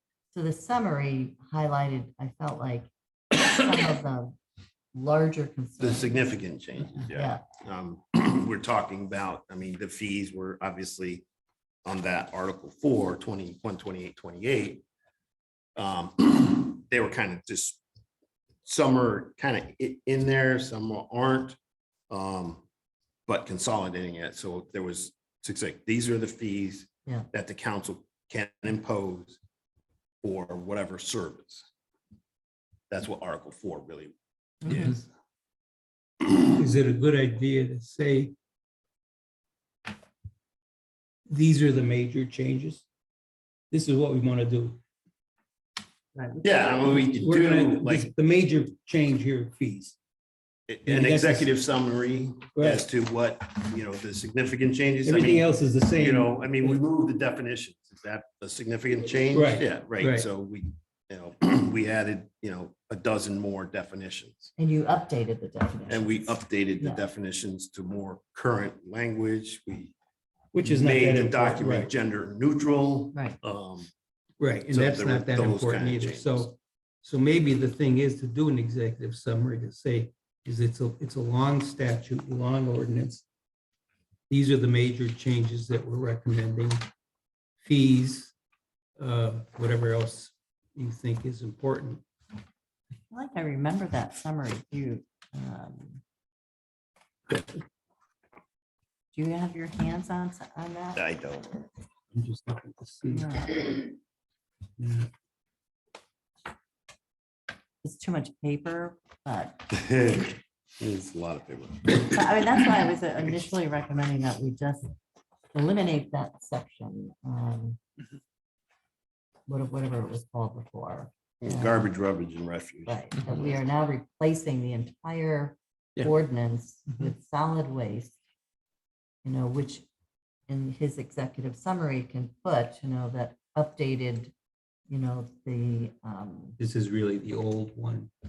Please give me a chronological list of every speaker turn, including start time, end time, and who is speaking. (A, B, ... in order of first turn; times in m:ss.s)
0:00.3-0:04.4 A
0:04.9-0:06.3 A
0:05.8-0:11.2 B
0:07.0-0:07.4 A
0:11.8-0:14.8 B
0:15.8-0:17.8 B
0:18.6-0:21.6 B
0:22.1-0:22.6 B
0:23.3-0:29.4 B
0:30.2-0:31.6 B
0:32.9-0:34.1 B
0:34.6-0:34.9 A
0:34.7-0:35.0 C
0:36.4-0:38.3 C
0:41.3-0:42.8 C
0:43.7-0:44.8 C
0:46.1-0:47.2 A
0:46.4-0:48.1 B
0:47.2-0:50.0 C
0:50.7-1:04.5 B
0:50.8-0:51.5 C
0:52.5-0:52.8 C
0:55.0-0:56.8 C
0:59.3-1:00.3 C
1:04.6-1:07.0 A
1:05.9-1:09.9 B
1:10.5-1:11.9 C
1:10.6-1:13.9 B
1:14.4-1:23.2 C
1:14.7-1:16.4 B
1:24.3-1:26.8 C
1:27.6-1:28.3 C
1:29.0-1:32.0 C
1:33.1-1:36.0 A
1:39.1-1:41.0 A
1:41.0-1:41.6 B
1:42.1-1:43.3 C
1:43.0-1:43.8 A
1:44.8-1:45.1 C
1:47.8-1:49.7 A
1:49.7-1:52.1 B
1:52.0-1:54.9 A
1:55.5-1:57.8 A
1:59.5-2:01.9 A
2:01.4-2:03.4 B
2:02.8-2:08.2 A
2:09.2-2:09.8 A
2:10.5-2:14.3 A
2:14.9-2:16.6 A
2:16.6-2:18.1 C